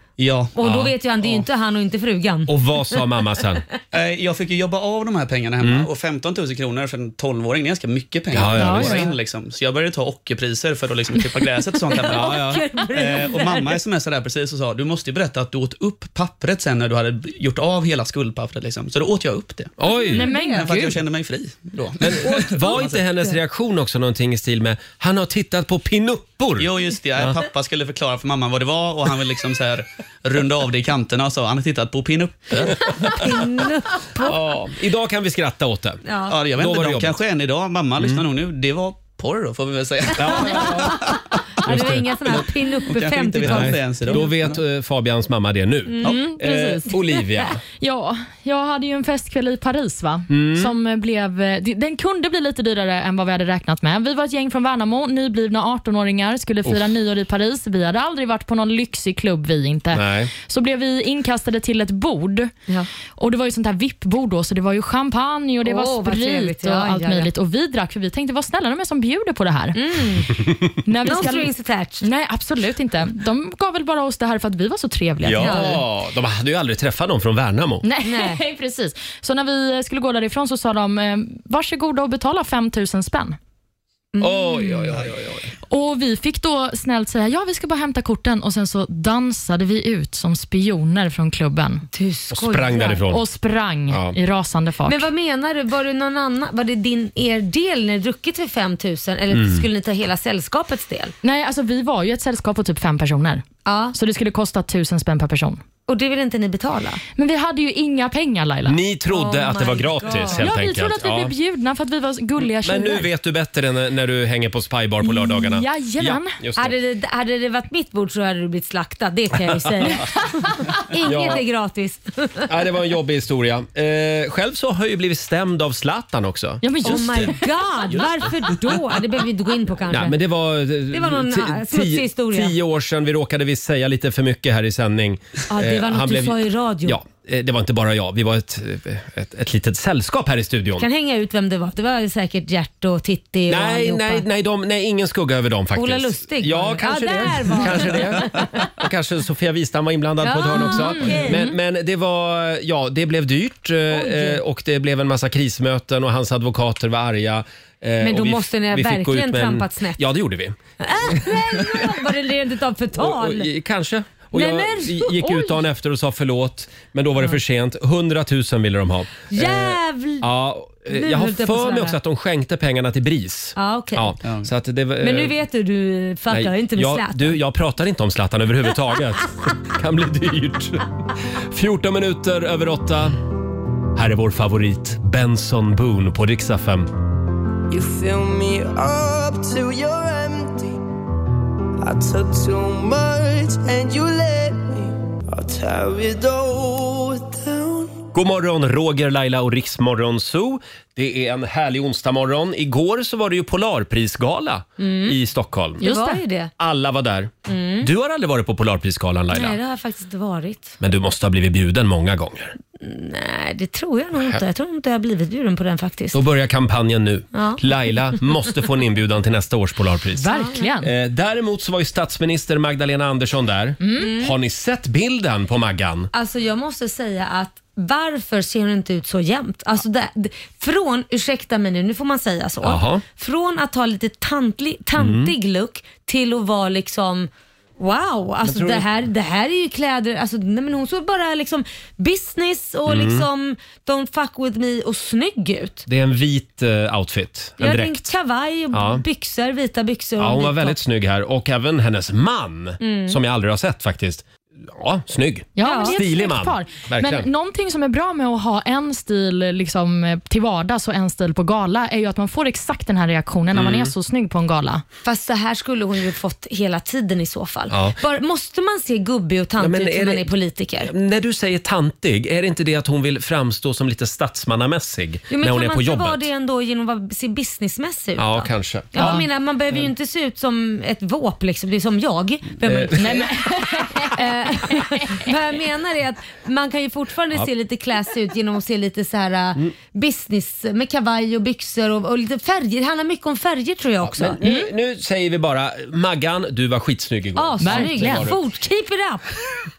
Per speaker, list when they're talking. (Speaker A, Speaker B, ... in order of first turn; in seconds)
Speaker A: 0.2-0.5, 3.9-19.7, 20.4-22.9, 26.6-32.9, 36.3-40.9, 42.9-44.6, 174.2-174.5
Speaker B: 0.5-3.0, 8.7-9.1, 11.9-13.8, 20.1-20.6, 22.2-23.3, 33.0-34.4, 36.0-36.4, 40.2-44.3, 45.9-46.2, 65.6-67.3, 69.7-70.3, 71.0-72.0, 75.4-75.8, 78.0-78.4, 84.1-84.9, 91.9-93.0, 94.8-101.1, 103.7-103.9, 105.9-107.0, 109.1-110.4, 116.5-120.1, 120.8-122.5, 126.8-130.2, 130.9-132.5, 135.5-137.0, 140.8-144.2, 145.7-148.7, 150.2-151.4, 153.9-154.4, 158.0-160.0, 160.8-163.5, 164.3-165.5, 169.3-170.3, 170.9-171.9, 173.6-174.2, 175.0-177.4, 204.8-205.2, 205.8-206.5, 207.5-207.9, 209.3-210.8, 212.8-216.2, 217.3-217.6, 220.3-220.7, 224.0-224.3, 226.1-245.8, 247.6-250.8, 252.8-253.2, 255.6-255.9, 265.0-270.9, 275.3-283.3, 283.9-294.4, 297.4-299.3
Speaker C: 0.6-0.9, 2.5-3.6, 5.6-5.9, 8.3-9.0, 19.8-20.2, 22.0-27.4, 34.2-36.0, 36.5-37.2, 40.1-42.4, 43.4-47.6, 50.3-50.7, 59.9-60.3, 75.2-77.8, 84.2-85.5, 92.3-93.2, 93.9-94.2, 99.3-99.6, 108.6-111.3, 112.6-116.8, 121.0-121.4, 122.5-127.3, 129.9-140.8, 143.5-161.9, 162.9-175.3, 176.3-183.2, 183.9-186.9, 198.1-205.8, 206.6-209.6, 210.8-212.5, 214.1-214.4, 216.1-226.1, 232.6-233.0, 235.0-235.3, 238.4-238.9, 242.9-243.3, 245.9-248.0, 248.7-249.0, 250.2-257.3, 263.5-263.9, 267.7-268.0, 269.6-270.3, 270.8-276.2, 278.2-279.9, 282.6-283.3, 294.0-298.4
Speaker D: 8.6-9.0, 20.1-20.9, 46.0-46.9, 47.8-62.5, 63.2-69.8, 70.8-75.8, 77.8-83.4, 85.7-91.8, 93.1-95.0, 101.2-105.6, 107.2-108.8, 110.4-113.0, 115.0-116.4, 126.6-127.4, 150.8-151.5, 205.8-206.2, 220.2-220.9, 223.8-224.1, 255.6-264.8, 282.9-285.2, 297.6-298.3
Speaker E: 187.7-190.7, 191.8-197.9